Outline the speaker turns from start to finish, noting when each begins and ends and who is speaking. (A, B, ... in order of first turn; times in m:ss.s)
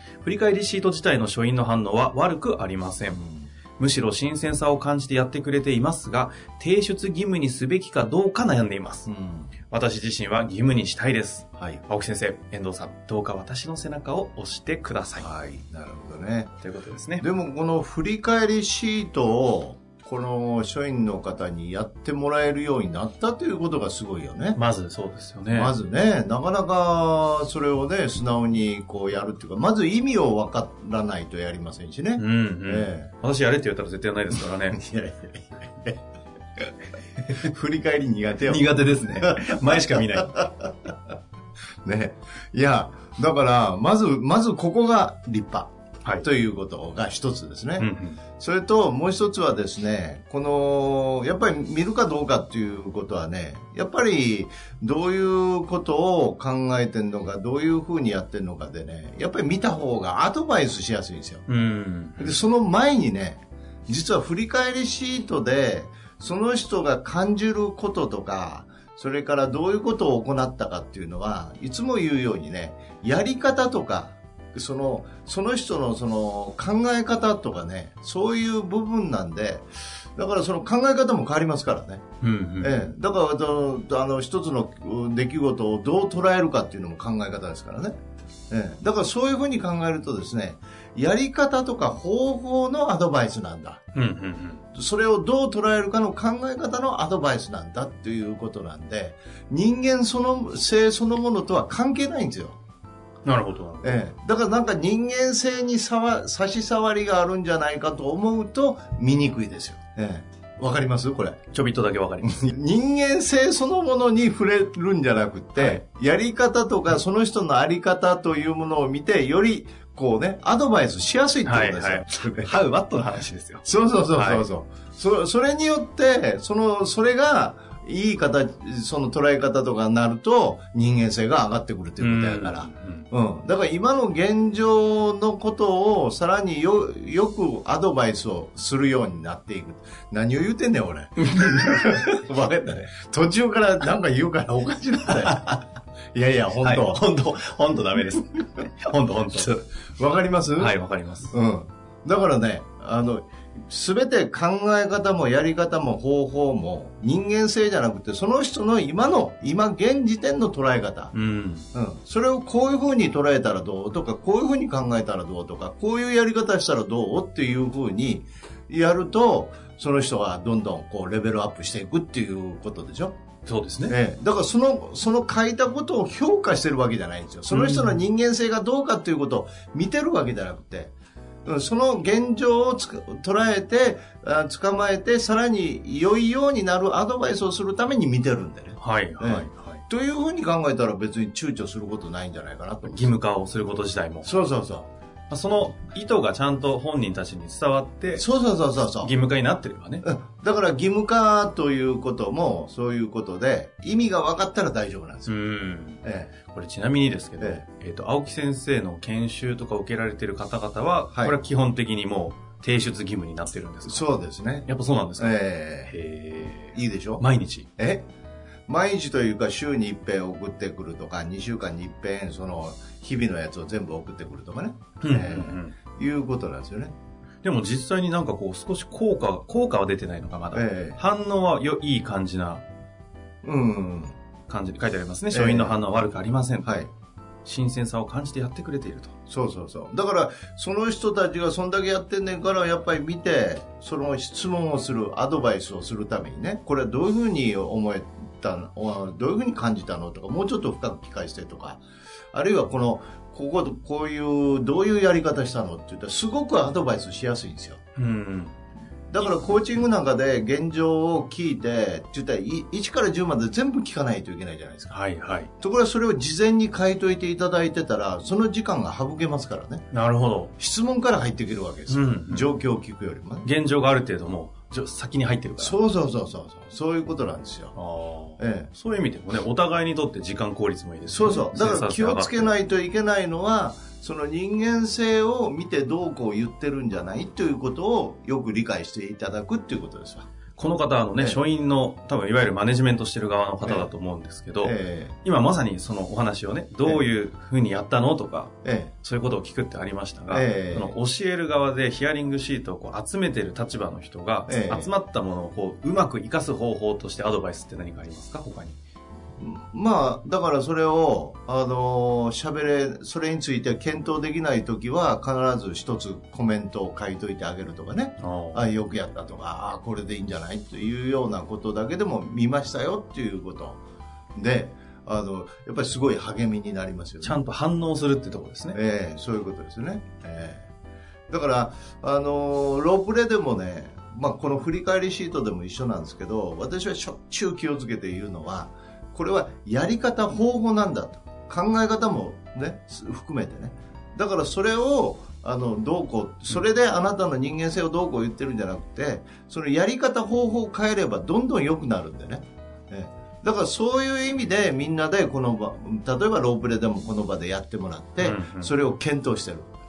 0:00.2-0:03.2 A
0:03.1-0:03.5 B
0:03.8-0:09.1 A
0:09.1-0:09.5 B
0:09.7-0:15.3 A
0:15.2-0:16.6 B
0:16.6-0:17.3 A
0:17.2-0:24.6 B
0:24.6-0:25.8 A
0:25.5-0:33.1 B
0:32.2-0:34.8 A
0:34.7-0:36.0 B
0:37.3-0:40.7 B
0:38.4-0:40.4 A
0:41.8-0:47.9 B
0:47.8-0:48.2 A
0:48.4-1:01.4 B
1:01.5-1:02.4 A
1:02.2-1:22.0 B
1:22.2-1:22.9 A
1:22.6-1:28.0 B
1:28.5-1:33.8 B
1:33.9-1:34.6 A
1:34.7-1:42.6 B
1:43.2-1:44.1 A
1:43.8-1:51.4 B
1:51.5-1:52.4 A
1:52.2-2:02.6 B
1:55.6-1:55.8 A
2:01.4-2:04.5 A
2:03.6-2:25.5 B
2:12.0-2:13.1 A
2:21.2-2:22.0 A
2:25.2-2:25.6 A
2:26.1-2:27.0 B
2:26.6-2:29.7 A
2:30.0-2:30.8 B
2:30.6-2:31.3 A
2:31.3-2:41.1 B
2:41.1-2:41.7 A
2:41.7-2:53.2 B
2:53.4-2:54.0 A
2:53.9-3:00.9 B
2:57.5-2:58.0 A
3:01.4-3:13.2 B
3:08.8-3:09.8 A
3:12.8-3:14.3 A
3:14.2-3:14.9 B
3:15.3-3:18.3 A
3:18.2-3:19.1 B
3:19.0-3:20.1 A
3:20.0-3:25.4 B
3:25.3-3:34.1 A
3:26.0-3:26.3 B
3:31.1-3:31.4 B
3:33.8-3:36.0 B
3:34.7-3:37.7 A
3:36.7-3:37.3 B
3:37.8-3:38.1 B
3:38.7-3:46.9 B
3:45.0-3:45.8 A
3:47.4-3:52.6 A
3:50.5-3:51.0 B
3:53.4-3:54.2 B
3:54.5-3:56.9 A
3:55.3-3:55.8 B
3:56.6-3:56.9 B
3:57.4-3:59.1 A
3:59.3-4:11.8 B
4:12.3-4:17.8 B
4:18.0-4:18.6 A
4:19.1-4:25.0 B
4:19.2-4:19.5 A
4:24.9-4:25.5 A
4:25.6-4:29.8 B
4:29.9-4:30.5 A
4:30.6-4:33.5 B
4:31.9-4:32.6 A
4:33.4-4:35.8 A
4:35.6-4:37.8 B
4:37.8-4:42.6 A
4:38.4-4:38.7 B
4:41.1-4:50.3 B
4:50.6-5:08.8 A
4:51.2-4:51.4 B
4:53.6-4:53.9 B
4:54.6-4:55.2 B
4:58.6-4:58.9 B
5:00.3-5:01.0 B
5:04.5-5:04.9 B
5:09.4-5:23.8 B
5:18.2-5:18.7 A
5:24.4-5:27.4 B
5:27.2-5:28.8 A
5:28.7-5:30.7 B
5:31.3-5:59.7 B
5:58.2-5:58.8 A